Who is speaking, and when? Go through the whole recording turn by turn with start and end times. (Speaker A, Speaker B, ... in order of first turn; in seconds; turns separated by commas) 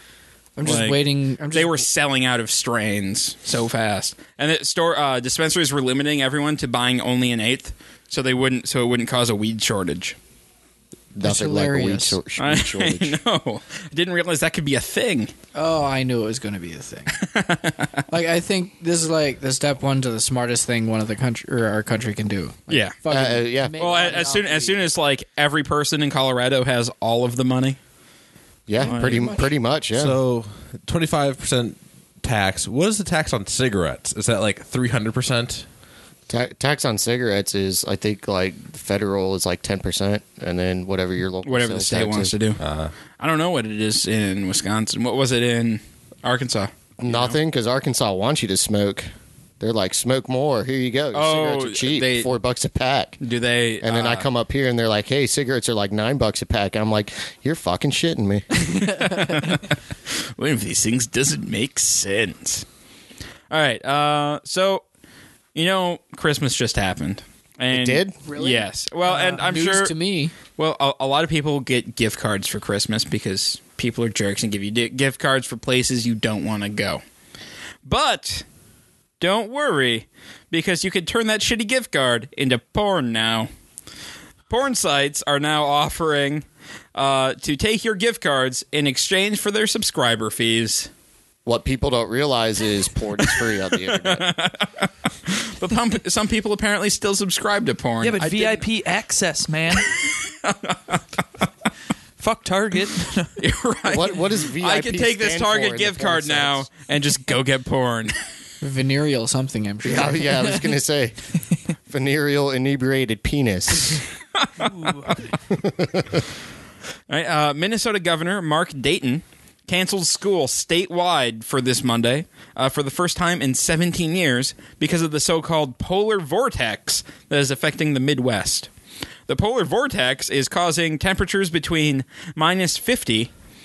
Speaker A: 0.6-1.8, Speaker B: 0.6-10.2, Speaker C: 11.1-13.2, Speaker A: 11.2-12.2, Speaker B: 12.4-15.3, Speaker A: 15.5-17.1, Speaker B: 17.1-17.9, Speaker A: 18.1-24.9, Speaker B: 22.7-23.0, Speaker C: 23.1-23.8, Speaker B: 23.8-27.8, Speaker C: 28.7-30.2, Speaker A: 28.8-29.5, Speaker D: 29.9-35.6, Speaker C: 36.3-42.3, Speaker B: 41.4-42.6, Speaker D: 42.6-42.9, Speaker B: 43.2-47.4, Speaker C: 47.0-49.1, Speaker C: 49.6-53.2, Speaker B: 51.1-52.3, Speaker B: 53.2-54.3, Speaker C: 53.8-58.7, Speaker B: 58.6-59.7, Speaker B: 60.4-62.6, Speaker B: 63.5-64.8, Speaker B: 65.5-69.9, Speaker C: 67.7-68.1, Speaker A: 68.2-70.3, Speaker B: 70.6-77.0, Speaker B: 77.8-78.4, Speaker B: 79.2-83.5, Speaker B: 84.5-90.9, Speaker C: 91.5-94.3, Speaker B: 93.2-98.7, Speaker E: 98.0-99.9, Speaker B: 100.0-101.0, Speaker E: 102.2-103.3, Speaker B: 103.4-108.2, Speaker C: 103.9-106.7, Speaker A: 108.6-110.7, Speaker C: 109.8-111.1, Speaker C: 111.9-114.0, Speaker B: 114.4-115.2, Speaker E: 114.6-115.1, Speaker C: 115.5-116.2, Speaker B: 117.1-128.7, Speaker B: 129.3-133.3